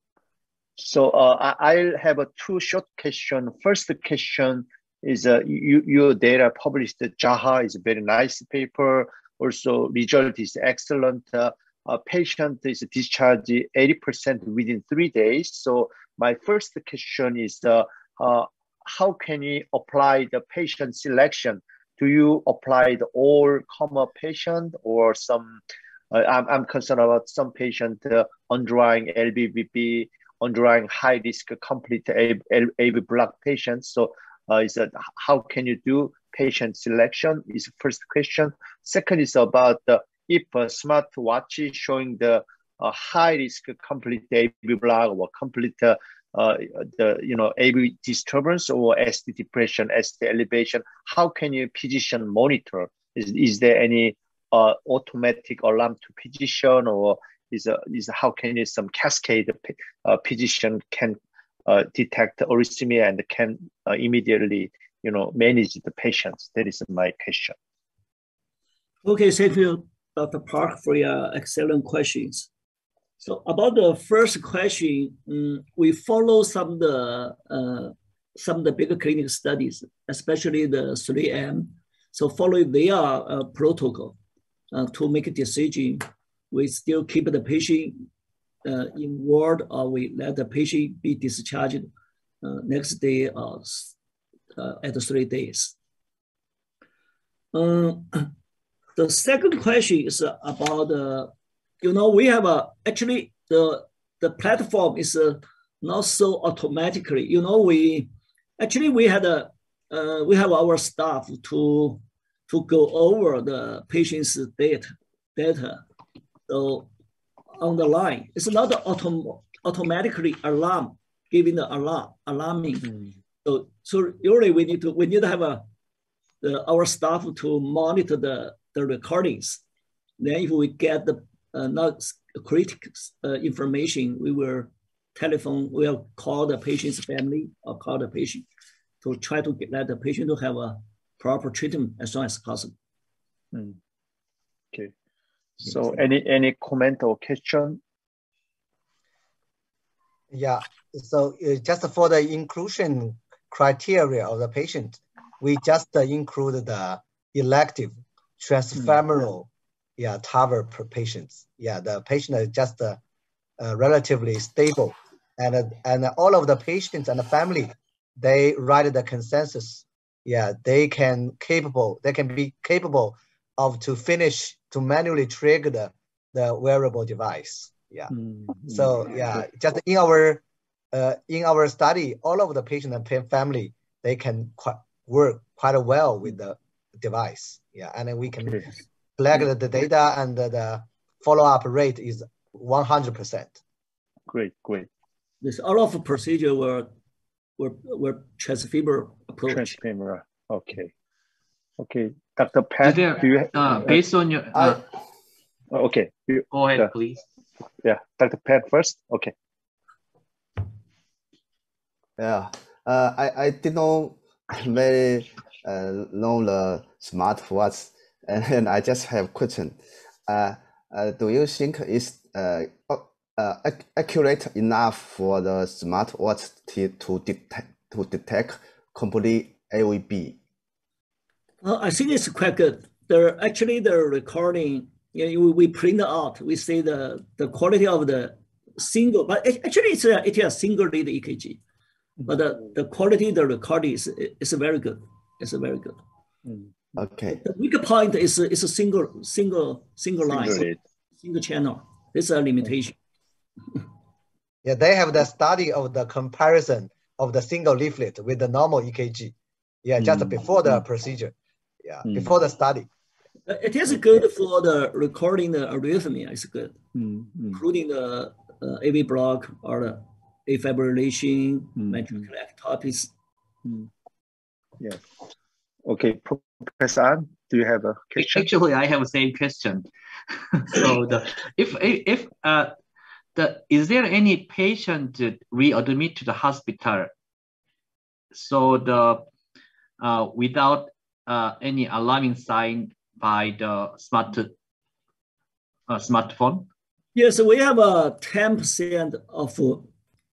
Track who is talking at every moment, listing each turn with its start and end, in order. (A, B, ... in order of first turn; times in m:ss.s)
0:00.8-1:07.6 A
1:09.0-1:12.5 B
1:13.2-1:24.2 B
1:24.7-1:28.0 B
1:28.6-1:31.9 B
1:32.4-1:34.0 B
1:34.6-1:35.7 B
1:37.5-1:38.3 B
1:39.0-1:55.8 B
1:56.5-1:56.9 B
1:57.6-2:02.9 B
2:03.4-2:05.6 B
2:06.4-2:09.6 B
2:10.2-2:18.5 B
2:19.0-2:22.8 B
2:23.5-2:23.8 A
2:25.6-2:27.8 A
2:30.3-2:43.0 C
2:43.6-2:58.1 C
2:58.1-2:58.9 A
2:58.6-3:13.6 C
3:14.3-3:14.9 A
3:15.4-3:16.9 B
3:17.6-3:19.8 B
3:19.5-3:20.9 A
3:21.8-3:24.0 A
3:22.8-3:24.8 D
3:25.7-3:26.9 A
3:26.5-3:27.2 D
3:27.8-3:29.3 A
3:32.2-3:50.4 E
3:51.6-4:01.6 B
4:02.3-4:06.0 B
4:06.5-4:06.7 A
4:07.0-4:07.4 E
4:07.3-4:10.7 B
4:10.3-4:10.8 A
4:11.2-4:13.0 B
4:14.6-4:22.9 C
4:20.0-4:20.3 A
4:22.1-4:22.4 A
4:23.5-4:26.8 B
4:27.0-4:27.6 A
4:27.5-4:33.1 B
4:31.8-4:32.2 A
4:34.8-4:35.1 A
4:35.9-4:38.5 A
4:38.2-4:39.9 D
4:40.5-4:42.8 D
4:43.4-4:47.1 D
4:48.3-4:49.3 D
4:50.0-4:54.5 D
4:55.9-4:56.7 D
4:57.2-4:59.9 B